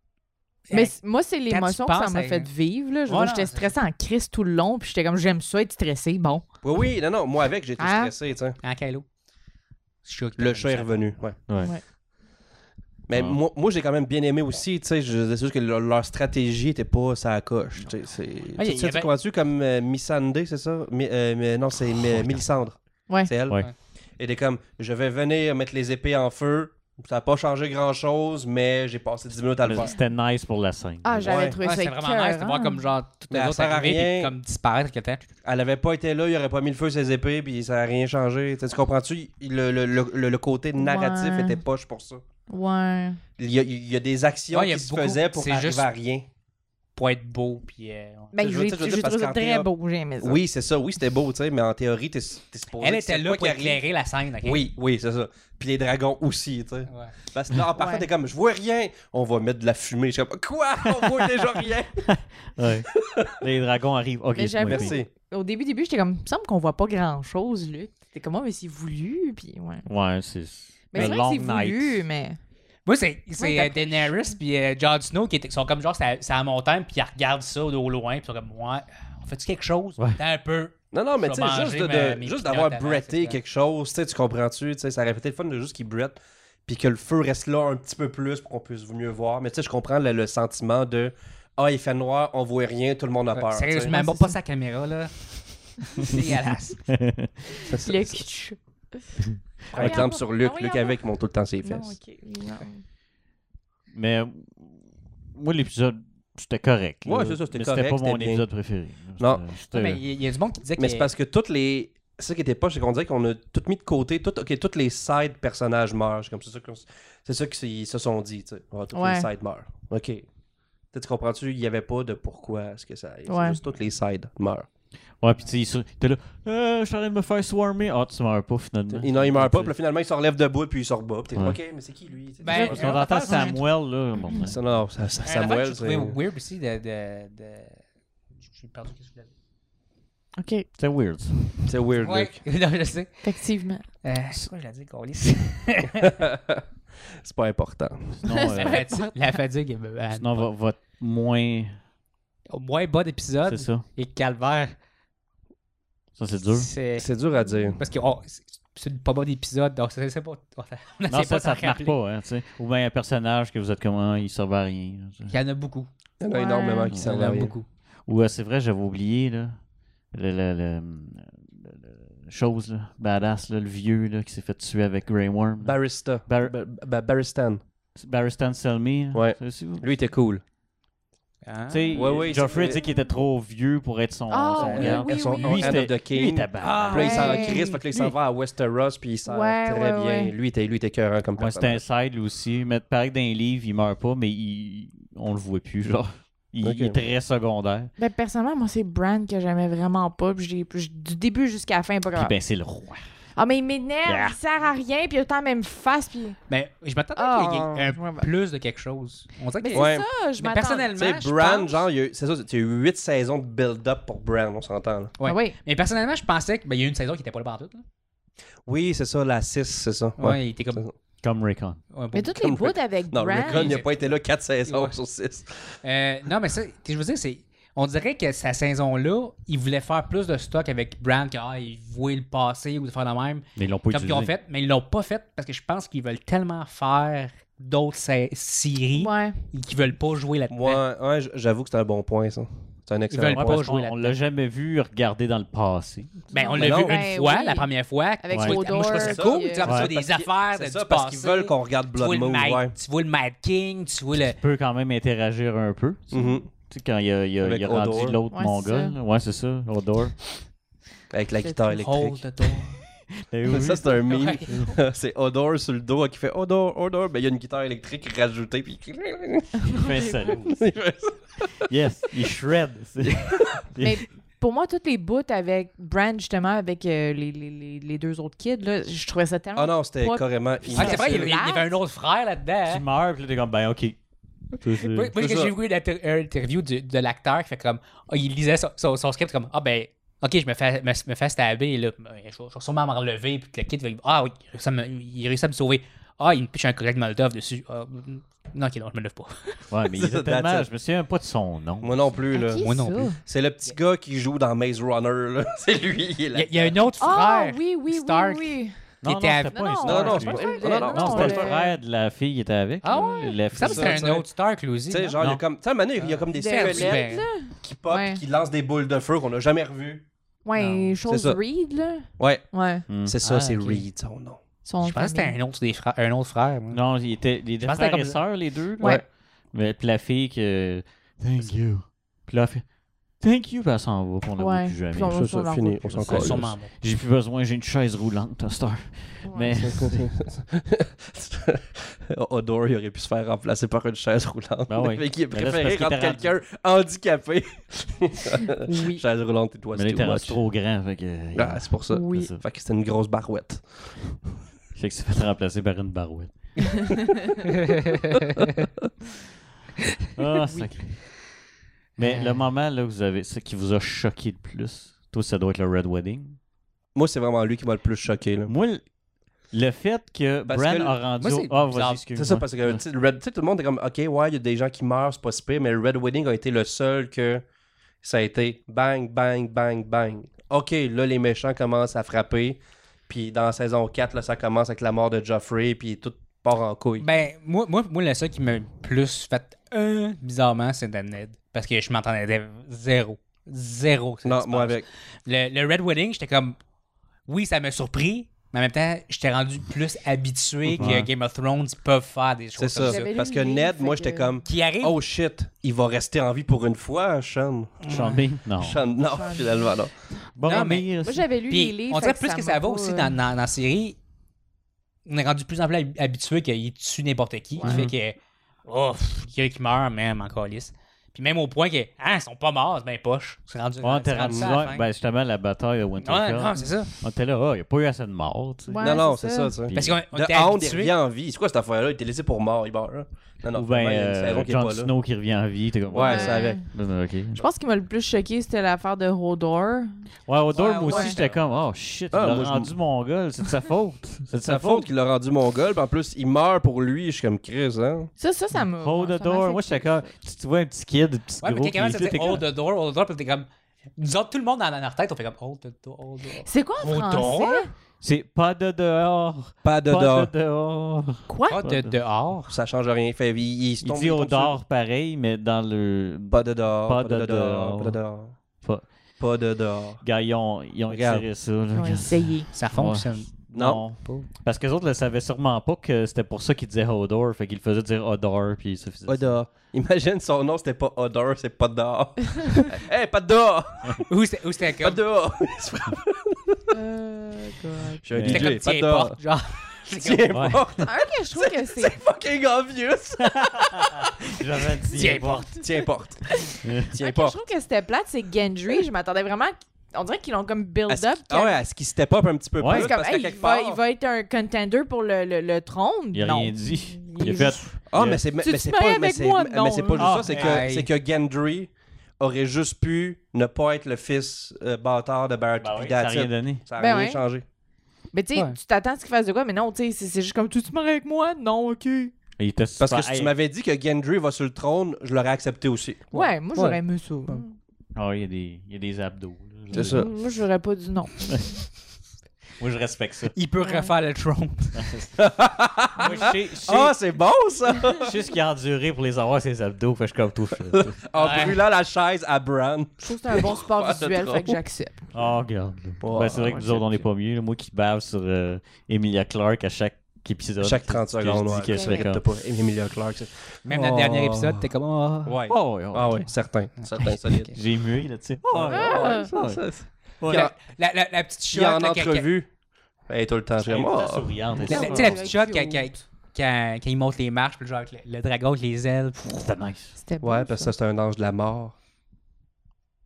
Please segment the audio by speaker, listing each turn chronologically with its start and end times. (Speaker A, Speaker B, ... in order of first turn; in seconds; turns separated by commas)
Speaker A: 0.7-3.7, Speaker B: 0.7-6.5, Speaker C: 6.6-8.6, Speaker B: 7.8-8.1, Speaker A: 8.6-9.1, Speaker A: 10.0-11.2, Speaker C: 10.4-11.4, Speaker D: 11.5-11.8, Speaker B: 11.6-11.8, Speaker C: 13.1-29.9, Speaker D: 13.1-13.4, Speaker A: 18.6-19.1, Speaker D: 22.0-22.4, Speaker D: 29.6-31.6, Speaker B: 31.0-32.9, Speaker C: 31.2-31.6, Speaker A: 31.6-35.2, Speaker C: 33.3-34.3, Speaker C: 35.4-42.2, Speaker B: 40.8-41.6, Speaker B: 42.5-43.2, Speaker C: 43.4-46.3, Speaker A: 44.5-45.9, Speaker A: 47.0-48.4, Speaker B: 48.3-50.4, Speaker C: 48.4-49.7, Speaker C: 50.2-53.8, Speaker A: 52.8-54.7, Speaker C: 54.4-62.1, Speaker A: 56.9-57.1, Speaker B: 57.8-58.1, Speaker D: 62.1-65.0, Speaker B: 64.3-69.9, Speaker C: 64.6-65.1, Speaker D: 69.8-72.0, Speaker B: 70.9-72.4, Speaker A: 72.9-83.4, Speaker B: 73.4-74.4, Speaker C: 80.9-94.0, Speaker A: 93.3-96.9, Speaker B: 93.9-94.4, Speaker D: 96.9-97.3, Speaker C: 97.6-98.3, Speaker B: 97.8-99.2, Speaker B: 99.7-101.0, Speaker C: 99.7-102.0, Speaker B: 101.6-102.8, Speaker D: 103.9-104.8, Speaker D: 105.3-110.0, Speaker C: 107.0-108.6, Speaker C: 109.2-109.4, Speaker A: 109.7-111.1, Speaker C: 110.8-120.3, Speaker B: 118.9-119.3, Speaker C: 120.9-124.7, Speaker B: 123.3-123.6, Speaker D: 125.2-129.8, Speaker C: 128.9-133.1, Speaker A: 132.4-133.6, Speaker B: 132.5-133.6, Speaker D: 132.6-134.8, Speaker C: 134.4-136.2, Speaker A: 135.2-137.8, Speaker A: 138.4-139.3, Speaker B: 140.4-140.7, Speaker D: 140.8-141.4, Speaker C: 141.7-142.4, Speaker A: 142.0-146.1, Speaker B: 143.2-143.9, Speaker C: 146.2-146.6, Speaker C: 147.2-148.2, Speaker D: 148.2-148.9, Speaker B: 148.3-149.1, Speaker A: 148.6-150.5, Speaker D: 150.1-151.8, Speaker A: 152.5-154.8, Speaker D: 153.4-153.8, Speaker D: 156.2-156.7, Speaker A: 156.5-157.1, Speaker C: 157.0-157.8, Speaker B: 157.3-157.8, Speaker A: 157.8-161.9, Speaker D: 161.1-165.3, Speaker A: 165.3-165.9, Speaker C: 166.2-167.5, Speaker B: 166.3-166.9, Speaker A: 166.9-167.7, Speaker D: 168.1-176.6, Speaker C: 175.6-177.6, Speaker D: 177.9-179.9, Speaker C: 179.1-180.4, Speaker A: 181.4-182.4, Speaker D: 181.7-188.1, Speaker C: 181.9-182.8, Speaker B: 184.3-185.9, Speaker C: 184.6-191.8, Speaker A: 186.6-187.8, Speaker B: 186.9-187.7, Speaker B: 189.3-190.3, Speaker D: 191.4-197.9, Speaker C: 196.6-197.0, Speaker B: 198.0-202.3, Speaker D: 202.1-203.1, Speaker B: 203.4-206.4, Speaker A: 204.1-204.4, Speaker A: 206.5-211.9, Speaker B: 207.2-208.3, Speaker B: 209.6-210.9, Speaker C: 209.7-210.1, Speaker C: 210.9-215.1, Speaker A: 215.2-217.8, Speaker B: 215.2-215.6, Speaker C: 218.7-220.9, Speaker A: 220.2-220.8, Speaker D: 221.2-221.8, Speaker A: 221.9-222.5, Speaker B: 222.1-223.8, Speaker C: 222.4-225.7, Speaker A: 223.4-224.9, Speaker A: 225.8-240.8, Speaker D: 233.6-234.3, Speaker B: 238.9-239.4, Speaker C: 240.5-243.6, Speaker A: 243.1-244.2, Speaker D: 243.3-246.3, Speaker B: 246.3-249.7, Speaker A: 246.3-254.4, Speaker C: 246.6-247.0, Speaker D: 248.3-248.6, Speaker C: 248.9-252.7, Speaker D: 249.6-249.9, Speaker D: 254.3-260.4, Speaker C: 256.1-256.5, Speaker B: 256.1-256.4, Speaker C: 257.4-258.2, Speaker B: 258.3-258.9, Speaker C: 261.1-262.7, Speaker B: 261.4-261.9, Speaker A: 261.8-262.8, Speaker D: 263.1-264.6, Speaker C: 263.5-271.6, Speaker A: 264.1-264.6, Speaker B: 269.7-270.4, Speaker D: 269.8-270.7, Speaker D: 271.6-274.0, Speaker C: 273.1-273.4, Speaker B: 273.8-281.7, Speaker C: 279.6-281.4, Speaker A: 280.7-282.8, Speaker D: 282.7-284.0, Speaker D: 284.5-285.1, Speaker A: 284.8-299.7, Speaker C: 285.2-285.5, Speaker D: 299.7-302.1, Speaker C: 299.9-300.7, Speaker C: 301.8-306.8, Speaker B: 302.3-303.2, Speaker A: 302.6-303.1, Speaker A: 306.3-310.2, Speaker B: 307.0-308.8, Speaker D: 309.0-314.1, Speaker B: 309.5-311.8, Speaker C: 309.8-311.6, Speaker A: 312.8-315.2, Speaker B: 312.9-313.4, Speaker C: 313.6-314.3, Speaker C: 314.9-320.1, Speaker A: 315.9-317.3, Speaker B: 316.4-318.2, Speaker B: 320.4-322.9, Speaker A: 320.6-321.0, Speaker C: 321.1-321.4, Speaker C: 322.2-324.4, Speaker D: 322.9-323.2, Speaker A: 323.2-323.9, Speaker B: 324.6-325.4, Speaker A: 324.8-326.8, Speaker D: 326.7-340.1, Speaker A: 327.6-328.4, Speaker B: 334.4-336.0, Speaker C: 335.1-336.6, Speaker A: 336.1-336.7, Speaker B: 339.2-339.5, Speaker C: 339.6-350.6, Speaker D: 344.7-346.3, Speaker B: 348.6-349.0, Speaker D: 349.7-352.4, Speaker C: 351.4-354.3, Speaker B: 351.9-352.3, Speaker D: 354.8-356.9, Speaker D: 360.2-361.3, Speaker D: 362.0-366.4, Speaker A: 362.0-362.4, Speaker C: 366.9-368.5, Speaker D: 368.4-368.9, Speaker D: 369.5-372.8, Speaker C: 370.5-371.0, Speaker A: 371.2-372.1, Speaker C: 372.1-377.4, Speaker C: 378.0-387.1, Speaker A: 387.0-396.6, Speaker C: 394.2-394.9, Speaker A: 397.3-403.0, Speaker D: 400.7-401.1, Speaker C: 402.6-407.8, Speaker B: 402.8-404.4, Speaker A: 404.4-404.9, Speaker A: 407.8-408.3, Speaker D: 407.9-408.8, Speaker C: 408.6-410.0, Speaker B: 408.9-413.2, Speaker D: 410.3-411.3, Speaker A: 410.4-414.0, Speaker A: 415.1-424.9, Speaker D: 417.6-417.9, Speaker D: 423.8-429.0, Speaker C: 424.3-424.6, Speaker A: 426.0-426.9, Speaker B: 428.7-429.6, Speaker C: 428.8-434.9, Speaker D: 429.7-430.0, Speaker A: 429.7-430.9, Speaker D: 433.5-437.4, Speaker C: 435.9-436.6, Speaker B: 436.0-440.1, Speaker D: 440.3-444.9, Speaker A: 440.5-441.4, Speaker B: 440.8-441.2, Speaker C: 442.1-442.8, Speaker C: 444.4-448.1, Speaker B: 448.2-449.9, Speaker D: 448.5-452.4, Speaker A: 451.4-457.7, Speaker B: 456.4-457.7, Speaker D: 458.0-461.9, Speaker C: 459.6-460.3, Speaker B: 461.3-461.6, Speaker A: 461.5-462.5, Speaker C: 462.5-464.6, Speaker D: 463.8-469.2, Speaker C: 466.3-468.4, Speaker C: 469.2-470.1, Speaker D: 470.0-479.4, Speaker C: 470.9-471.4, Speaker B: 471.7-472.5, Speaker A: 472.5-474.3, Speaker C: 473.5-473.8, Speaker C: 479.1-484.1, Speaker A: 484.1-485.0, Speaker C: 484.8-486.7, Speaker B: 486.7-488.1, Speaker C: 488.0-494.0, Speaker D: 488.1-488.6, Speaker A: 488.2-490.6, Speaker D: 490.3-490.7, Speaker B: 490.9-492.0, Speaker D: 493.8-495.6, Speaker A: 494.9-495.6, Speaker C: 495.6-497.4, Speaker B: 496.5-501.6, Speaker C: 500.9-503.8, Speaker D: 502.6-502.9, Speaker B: 502.7-510.3, Speaker D: 506.1-508.2, Speaker C: 507.9-517.4, Speaker D: 509.9-510.7, Speaker A: 510.3-510.9, Speaker D: 515.6-516.6, Speaker B: 516.8-517.2, Speaker B: 518.1-522.1, Speaker D: 522.4-523.3, Speaker C: 522.8-526.3, Speaker B: 526.1-527.5, Speaker A: 526.5-526.8, Speaker D: 527.9-530.1, Speaker C: 529.7-530.1, Speaker B: 529.7-531.5, Speaker D: 532.6-533.4, Speaker A: 533.3-535.0, Speaker B: 533.6-534.0, Speaker D: 534.8-535.1, Speaker C: 535.2-538.1, Speaker A: 536.0-536.4, Speaker D: 536.0-537.3, Speaker D: 538.0-541.0, Speaker C: 540.8-544.6, Speaker A: 541.1-541.6, Speaker B: 543.0-545.6, Speaker D: 545.1-552.3, Speaker C: 546.0-546.7, Speaker B: 546.1-547.0, Speaker C: 550.6-554.7, Speaker B: 551.5-552.1, Speaker A: 553.7-555.4, Speaker C: 555.3-557.6, Speaker D: 555.5-556.3, Speaker A: 556.8-557.6, Speaker D: 557.5-560.5, Speaker C: 558.5-560.5, Speaker B: 558.7-559.3, Speaker A: 560.3-562.3, Speaker C: 561.5-562.5, Speaker C: 563.1-564.8, Speaker D: 563.6-565.4, Speaker A: 564.6-569.4, Speaker B: 564.7-565.9, Speaker D: 569.2-570.0, Speaker B: 570.0-570.8, Speaker C: 570.2-571.7